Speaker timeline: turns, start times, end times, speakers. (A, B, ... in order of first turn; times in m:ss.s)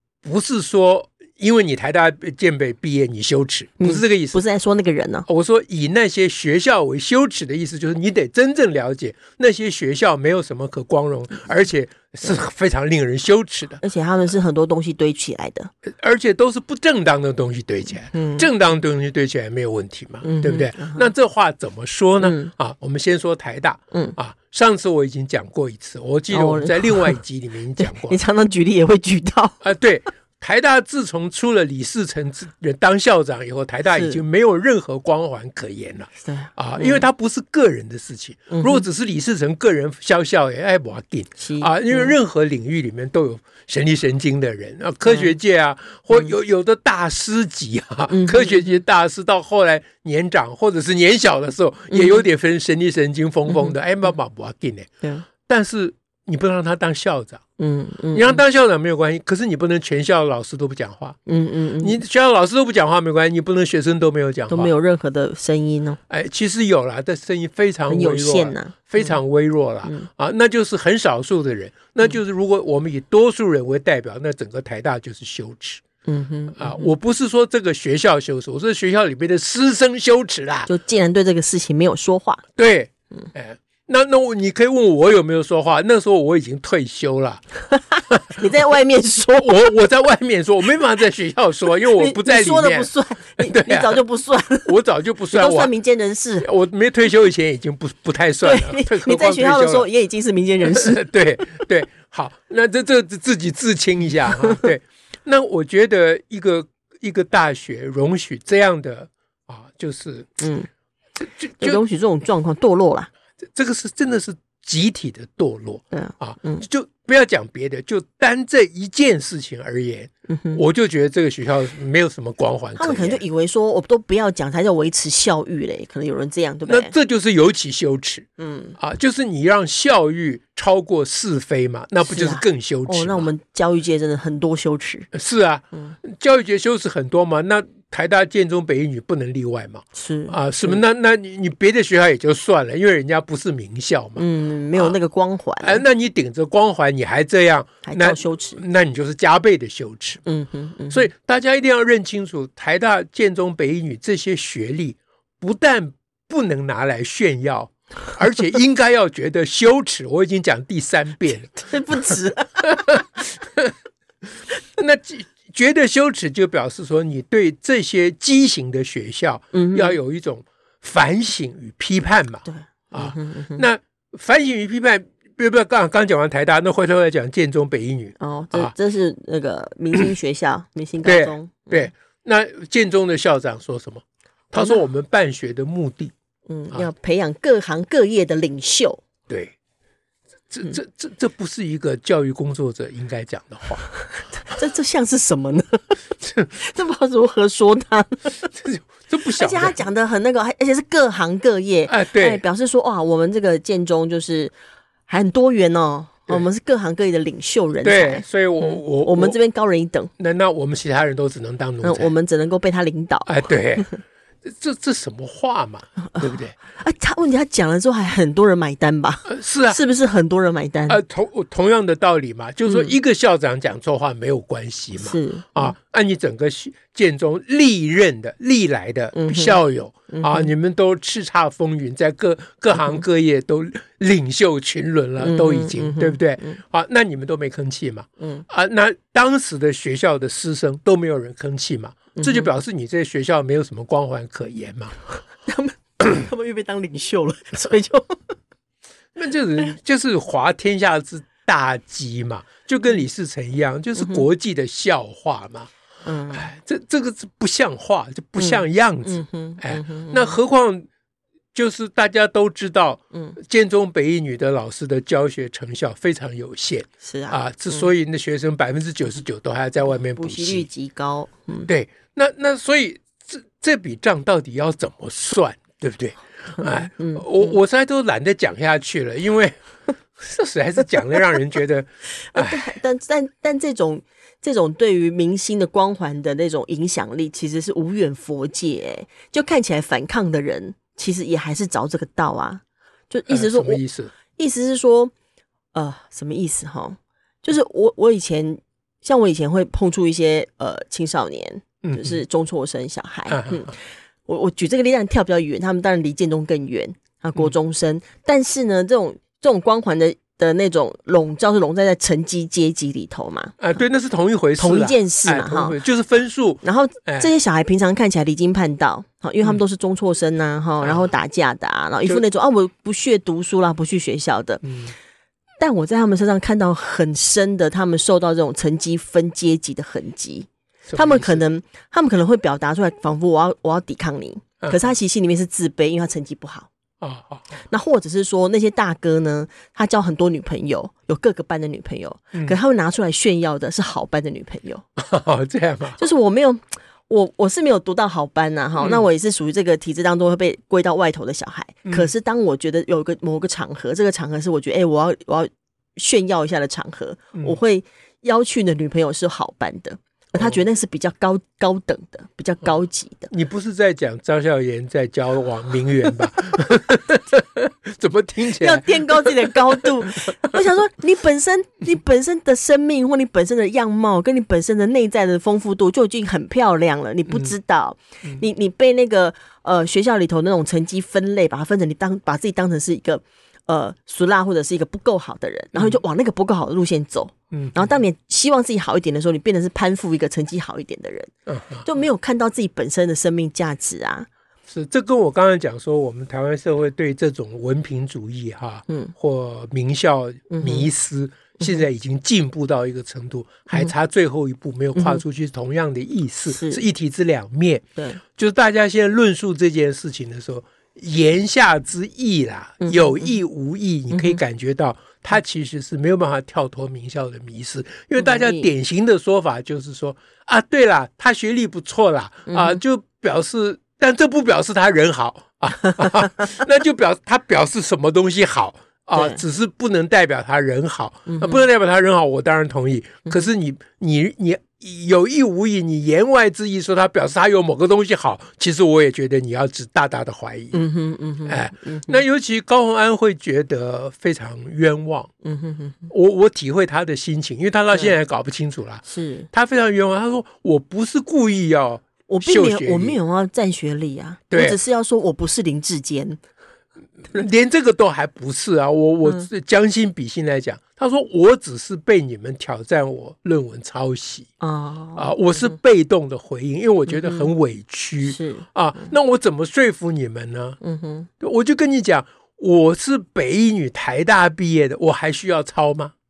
0:00.2-0:04.4 A
0:03.8-0:05.3 B
0:05.3-0:13.8 A
0:13.8-0:15.7 B
0:15.9-0:28.2 A
0:18.1-0:18.5 B
0:20.2-0:21.1 B
0:22.2-0:22.5 B
0:26.3-0:27.2 B
0:27.8-0:29.6 B
0:29.6-0:54.9 A
0:33.9-0:34.2 B
0:36.2-0:37.0 B
0:38.5-0:38.8 B
0:41.4-0:42.2 B
0:45.1-0:45.3 B
0:48.1-0:48.8 B
0:51.9-0:52.2 B
0:53.5-0:53.8 B
0:55.4-0:57.4 A
0:57.6-0:58.4 B
0:58.1-1:01.2 A
1:01.3-1:02.0 B
1:01.8-1:04.7 A
1:04.5-1:06.0 B
1:06.1-1:15.8 A
1:07.9-1:09.2 B
1:16.1-1:16.9 B
1:16.6-1:20.7 A
1:20.7-1:22.4 B
1:22.6-1:27.4 A
1:27.7-1:29.6 B
1:28.1-1:28.4 A
1:29.4-1:34.0 A
1:31.9-1:34.7 B
1:34.7-1:35.7 A
1:35.3-1:36.5 B
1:36.4-1:39.9 A
1:38.4-1:41.0 B
1:40.7-1:50.4 A
1:50.4-1:50.7 B
1:51.2-1:51.8 A
1:51.6-1:53.1 B
1:53.5-2:03.2 A
1:55.9-1:56.6 B
2:00.3-2:00.6 B
2:02.8-2:06.9 B
2:06.7-2:08.3 A
2:08.4-2:08.8 B
2:08.8-2:13.3 A
2:12.0-2:15.1 B
2:15.1-2:24.2 A
2:20.0-2:20.8 B
2:24.2-2:25.8 B
2:25.6-2:30.2 A
2:27.8-2:28.6 B
2:30.3-2:31.1 B
2:30.9-2:43.7 A
2:41.6-2:42.9 B
2:44.8-2:58.7 A
2:49.5-2:50.0 B
2:52.4-2:53.7 B
2:58.2-3:01.9 B
3:01.0-3:06.1 A
3:06.5-3:09.0 B
3:09.3-3:09.6 A
3:10.5-3:13.9 A
3:14.4-3:16.0 B
3:16.2-3:16.5 A
3:16.5-3:18.5 B
3:18.6-3:19.8 A
3:19.4-3:24.5 B
3:21.9-3:22.4 A
3:25.1-3:30.1 B
3:27.8-3:29.4 A
3:30.2-3:32.1 A
3:31.8-3:34.0 B
3:33.3-3:33.9 A
3:34.4-3:36.6 A
3:36.0-3:41.0 B
3:39.3-3:39.8 A
3:40.9-4:05.0 A
3:42.7-3:42.9 B
3:45.0-3:45.7 B
3:49.1-3:50.5 B
3:55.2-3:56.6 B
4:02.2-4:02.5 B
4:05.5-4:08.4 B
4:09.2-4:15.7 A
4:14.0-4:14.2 B
4:16.0-4:16.5 B
4:16.3-4:20.9 A
4:18.4-4:20.4 B
4:21.5-4:30.7 A
4:27.0-4:27.9 B
4:29.9-4:31.7 B
4:31.7-4:39.6 A
4:36.6-4:37.6 B
4:40.2-4:42.8 A
4:42.3-4:53.8 B
4:53.3-4:54.1 A
4:54.3-4:55.1 B
4:55.7-5:13.6 B
5:01.8-5:02.2 A
5:03.3-5:03.7 A
5:13.6-5:17.3 A
5:14.6-5:15.8 B
5:16.6-5:24.6 B
5:20.8-5:21.1 A
5:24.6-5:24.9 A
5:25.6-5:36.7 B
5:30.9-5:31.4 A
5:37.0-5:37.5 A
5:37.7-5:44.8 B
5:45.0-5:46.0 A
5:46.0-6:03.3 B
5:48.8-5:49.0 A
6:00.3-6:00.6 A
6:03.3-6:10.6 A
6:08.6-6:31.3 B
6:17.3-6:17.5 A
6:27.5-6:28.0 A
6:31.5-6:31.9 A
6:31.8-6:34.3 B
6:34.7-7:20.9 A
6:40.5-6:40.9 B
6:45.0-6:45.2 B
6:46.5-6:46.8 B
6:52.8-6:53.4 B
6:54.1-6:54.4 B
6:58.2-6:58.7 B
7:02.5-7:02.8 B
7:09.2-7:09.4 B
7:11.3-7:11.6 B
7:20.7-7:22.2 B
7:21.5-7:25.3 A
7:25.4-7:26.1 B
7:26.1-7:33.2 A
7:29.1-7:29.5 B
7:32.3-7:36.4 B
7:34.5-7:34.8 A
7:37.3-7:44.5 A
7:44.6-7:45.8 B
7:45.2-7:50.8 A
7:47.1-7:47.5 B
7:48.2-7:49.1 B
7:50.8-7:51.3 B
7:51.4-7:56.1 A